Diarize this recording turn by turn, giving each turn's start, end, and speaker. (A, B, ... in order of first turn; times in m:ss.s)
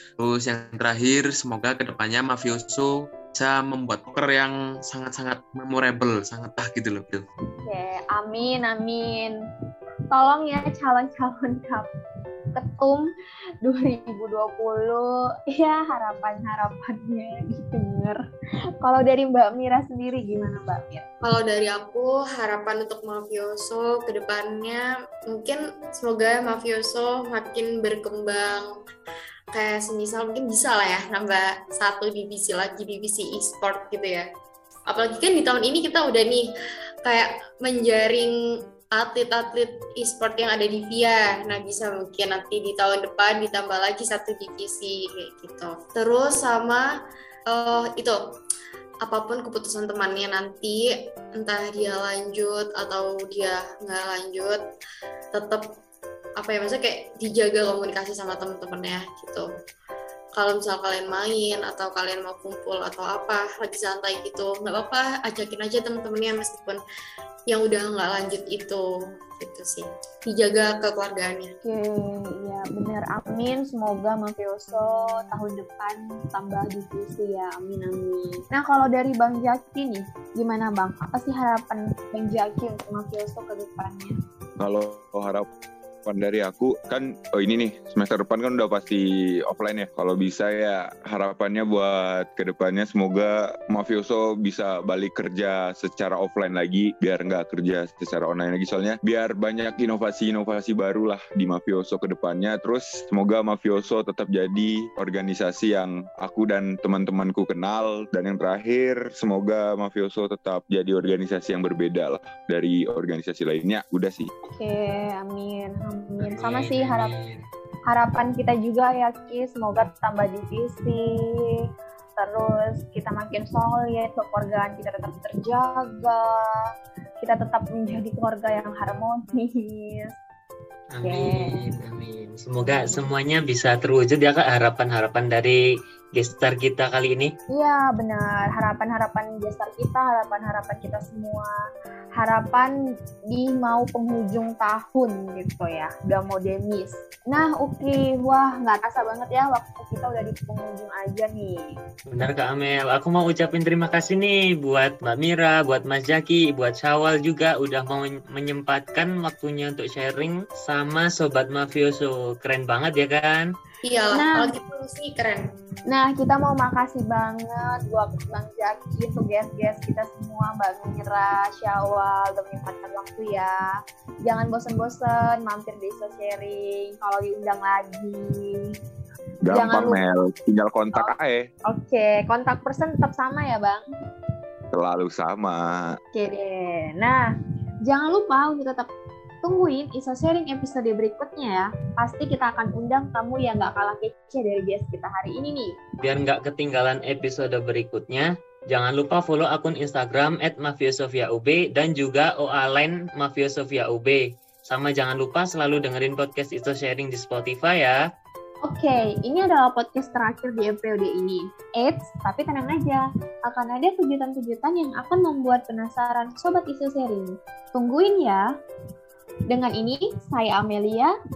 0:00.2-0:07.3 A
0:07.6-0:09.4 B
0:10.1-0:11.9 B
0:12.6-0:13.0 B
0:13.6-0:18.2 B
0:18.8-0:21.0 B
0:21.2-0:28.7 C
0:29.5-0:34.3 C
0:34.9-0:36.5 C
0:37.0-0:38.3 C
0:38.9-0:46.9 C
0:47.5-0:48.2 C
0:49.0-0:54.6 C
0:55.3-0:55.7 C
0:56.4-0:59.5 C
1:00.4-1:06.8 C
1:07.5-1:11.5 C
1:11.6-1:24.1 B
1:24.6-1:25.5 D
1:26.0-1:54.3 D
1:54.5-1:57.1 B
1:56.2-1:57.4 E
1:57.9-2:01.6 B
2:02.2-2:06.5 B
2:07.2-2:10.1 B
2:10.9-2:15.6 E
2:11.0-2:11.6 B
2:16.2-2:17.3 E
2:17.5-2:21.5 B
2:22.2-2:22.7 B
2:23.3-2:31.6 B
2:32.1-2:43.5 E
2:43.8-2:45.4 C
2:44.1-2:44.5 B
2:45.9-2:53.7 B
2:54.3-2:58.8 B
2:59.5-3:01.5 D
2:59.5-3:00.0 B
3:01.7-3:03.8 B
3:04.7-3:06.0 D
3:06.2-3:07.2 B
3:07.9-3:08.9 B
3:09.4-3:15.7 B
3:16.0-3:28.0 E
3:28.7-3:38.5 B
3:39.5-3:41.1 B